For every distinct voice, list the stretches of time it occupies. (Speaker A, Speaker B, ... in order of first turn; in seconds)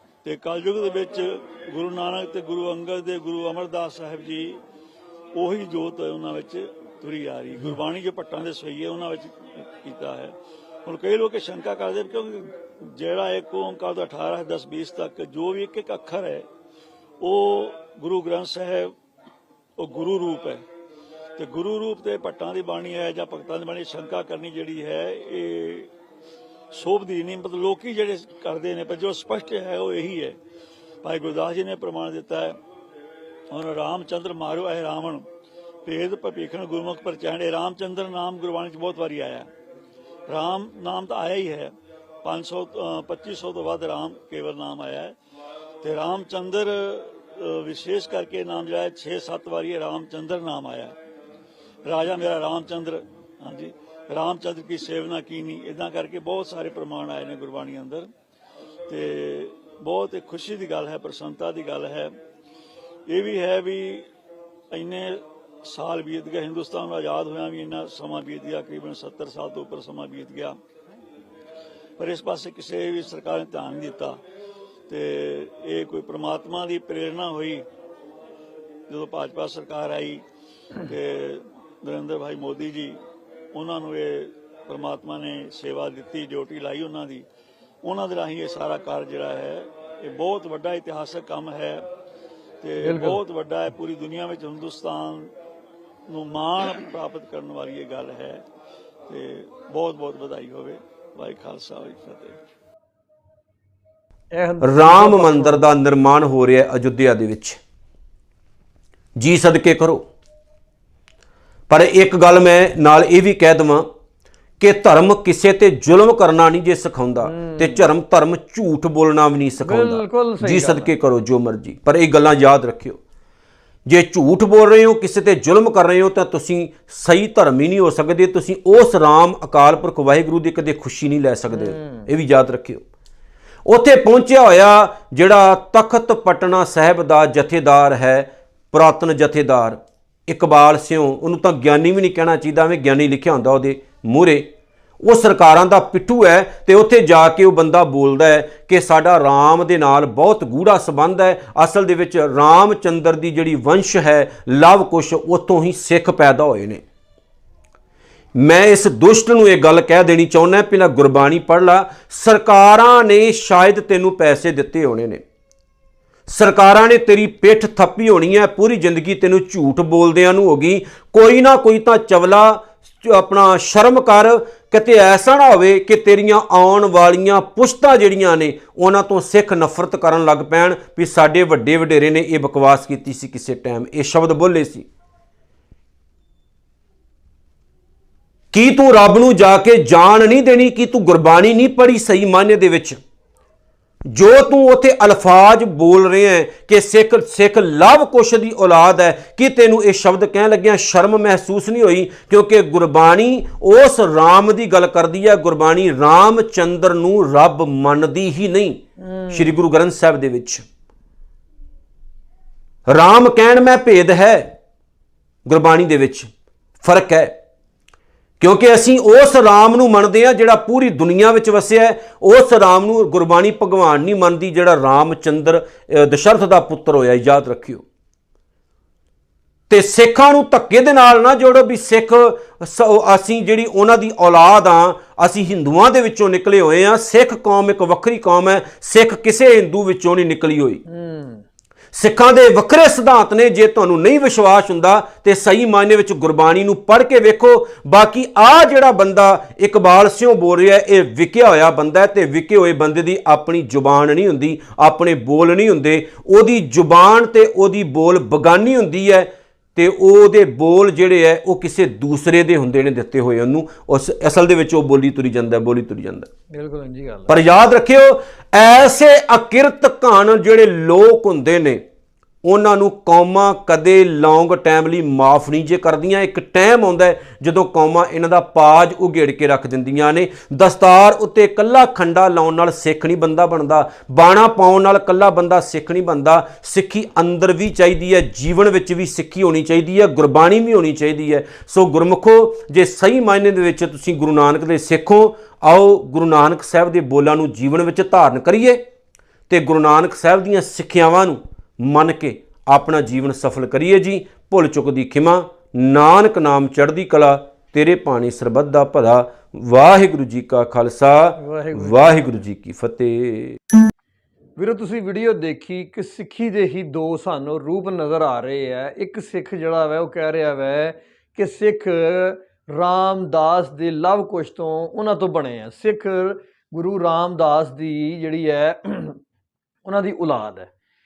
Speaker A: 0.2-4.6, 5.3-16.5, 17.2-18.9, 19.8-20.6, 21.4-25.9, 26.7-30.4, 31.0-32.6, 33.5-35.3, 35.8-39.5, 40.3-45.1, 45.8-51.0, 51.8-58.1, 58.9-62.1, 63.1-64.1, 64.7-70.5, 72.0-74.2, 74.9-77.7, 78.9-80.2, 80.8-83.0, 83.5-87.2, 87.8-91.8, 92.6-95.3, 96.1-98.4, 99.1-102.4
Speaker B: 92.8-93.2, 104.3-105.6, 117.2-117.9, 119.6-120.9, 131.5-132.1, 209.0-209.5, 240.9-241.4, 266.5-267.4, 311.4-312.3, 314.6-329.2, 329.8-330.7
Speaker C: 104.6-107.6, 109.2-110.0, 111.7-113.8, 114.6-123.0, 123.9-132.8, 133.7-144.4, 145.0-156.8, 158.3-165.2, 166.3-184.8, 188.5-193.0, 194.1-210.7, 212.9-214.5, 215.4-216.3, 216.8-217.3, 218.4-227.8, 229.7-240.8, 241.9-266.3, 267.3-271.8, 272.4-298.8, 299.5-313.6